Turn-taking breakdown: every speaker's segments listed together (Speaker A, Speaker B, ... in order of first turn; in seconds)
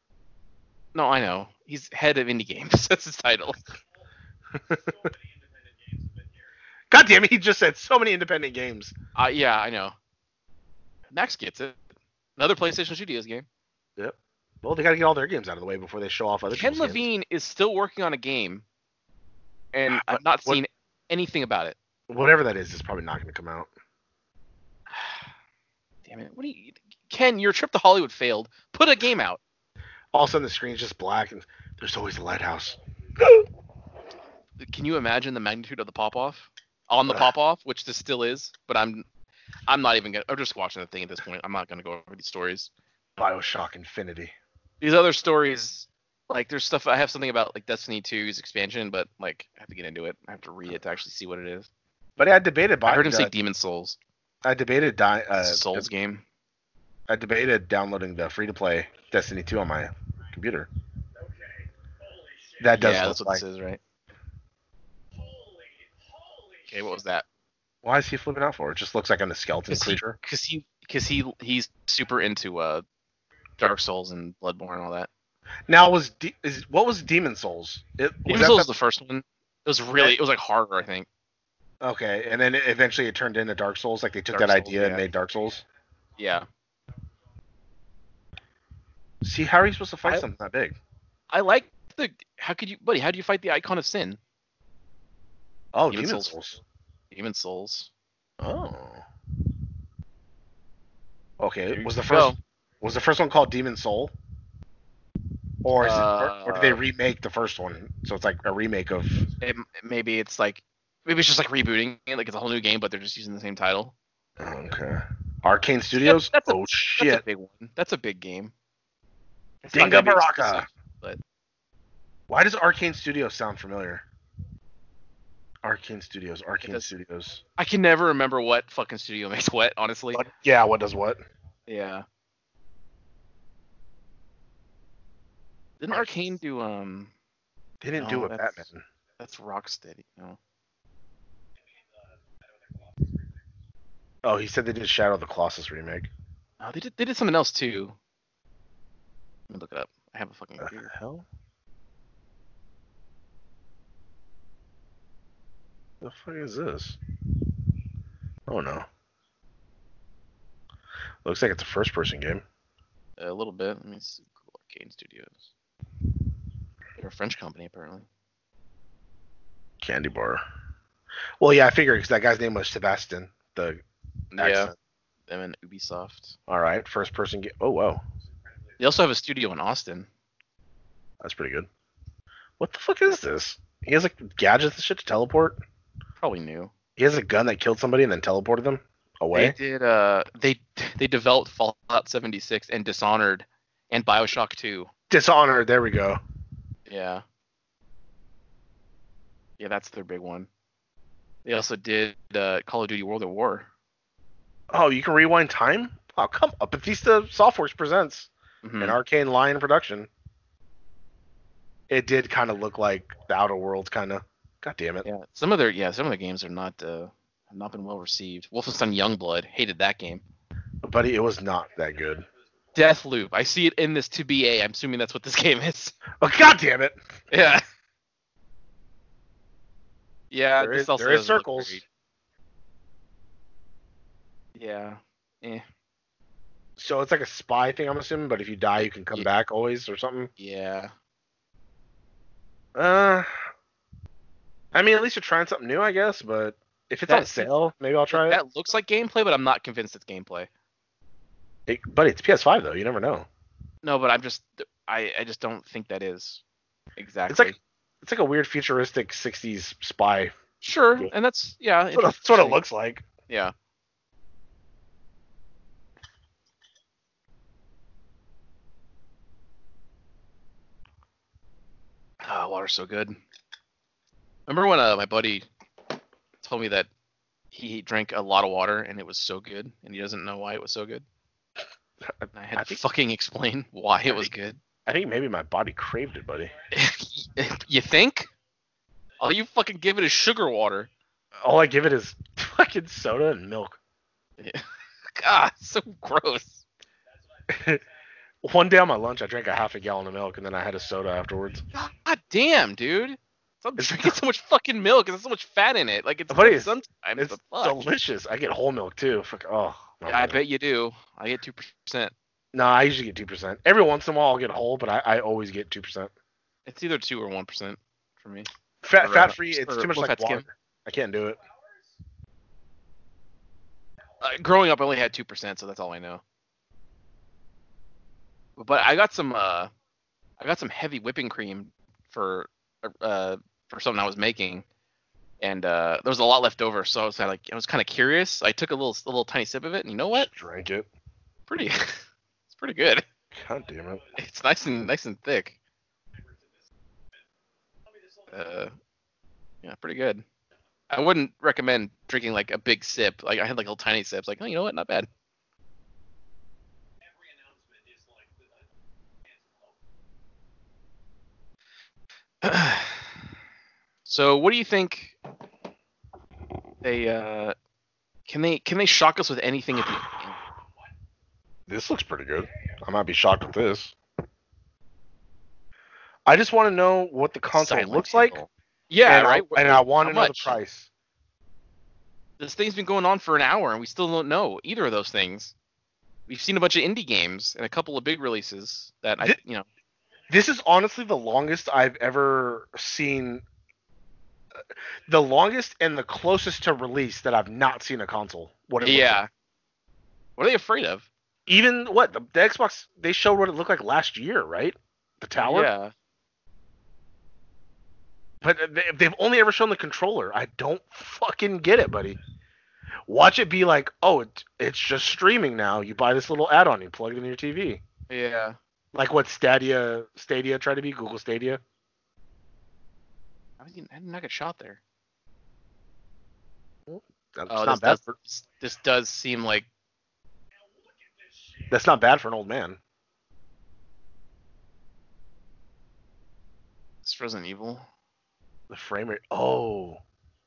Speaker A: 0.9-3.6, 9.2-9.9, 11.1-11.8, 12.4-13.4, 16.5-18.6, 19.7-21.8, 26.1-29.4, 34.6-39.0, 39.7-42.7, 44.8-51.7, 52.9-54.0, 55.4-56.2, 62.8-63.8, 66.7-67.2, 69.7-72.8, 73.6-75.1, 78.3-81.1, 84.3-85.0, 86.2-86.5, 91.3-94.2, 95.9-96.4, 97.1-97.9, 101.7-102.4, 105.8-106.8, 109.4-113.9, 116.0-118.5, 119.6-121.2, 126.6-126.9, 127.6-130.2, 131.7-132.1, 135.8-137.1, 138.0-138.7, 139.2-140.4, 146.6-147.9, 149.5-150.9, 163.2-165.4, 167.0-168.1, 174.3-174.7, 175.3-176.4, 178.8-180.1, 186.2-186.7, 189.3-194.9, 196.9-197.2, 199.6-200.5, 201.4-203.7, 208.6-209.0, 215.1-220.2, 222.7-225.9, 227.3-227.6, 230.3-231.8, 234.6-235.6, 240.4-240.9, 247.1-247.5, 248.1-250.5, 253.8-256.4, 257.0-257.6, 260.6-262.6, 272.2-273.2, 274.5-275.5, 276.4-276.9, 277.5-281.1, 282.3-284.6, 286.7-288.3, 289.2-290.9, 295.1-296.6, 301.7-307.8, 310.1-312.1, 316.7-318.5, 319.0-320.4, 324.2-326.2, 328.6-329.7, 330.4-334.6, 335.4-340.3, 341.5-343.0, 344.2-345.6, 348.3-348.7, 349.6-350.2, 350.9-355.1, 362.4-363.1, 364.1-365.1, 366.8-367.6, 368.3-370.4, 377.5-380.6, 382.4-385.5, 386.3-389.7, 398.8-399.3, 400.4-401.1, 405.4-405.9, 418.1-418.6, 423.6-424.8, 427.5-429.7, 437.0-437.9
Speaker B: 4.6-4.9, 6.9-8.9, 14.0-17.0, 19.9-20.6, 22.1-23.7, 30.1-33.5, 43.2-44.3, 52.2-53.3, 54.4-55.9, 57.1-60.7, 62.6-63.4, 67.8-70.2, 75.7-78.7, 81.8-85.6, 89.2-90.8, 95.7-96.6, 98.4-99.0, 101.4-104.1, 105.6-109.3, 114.4-117.2, 119.7-120.7, 122.3-124.0, 125.6-127.4, 130.1-131.2, 137.8-138.8, 144.2-146.1, 150.6-151.2, 156.0-157.0, 158.5-158.9, 161.2-162.4, 169.8-170.4, 171.4-173.8, 174.4-174.7, 176.5-178.0, 181.2-181.7, 182.6-185.6, 187.0-189.6, 195.1-196.2, 204.7-208.3, 208.8-210.1, 211.9-215.1, 220.8-222.3, 226.2-227.0, 230.6-231.8, 236.8-240.3, 242.7-243.3, 244.7-248.4, 251.7-253.3, 257.3-260.3, 261.9-263.1, 282.0-282.8, 284.9-286.5, 291.4-293.8, 297.5-297.8, 298.4-301.6, 303.8-304.2, 306.3-310.4, 312.5-316.1, 318.8-321.4, 340.1-340.9, 343.3-344.0, 371.7-373.9, 376.3-378.4, 379.1-380.9, 390.3-393.4, 395.1-399.2, 401.5-405.7, 408.4-412.2, 413.1-417.8, 418.9-421.6, 426.9-428.0, 431.7-432.8, 438.7-440.0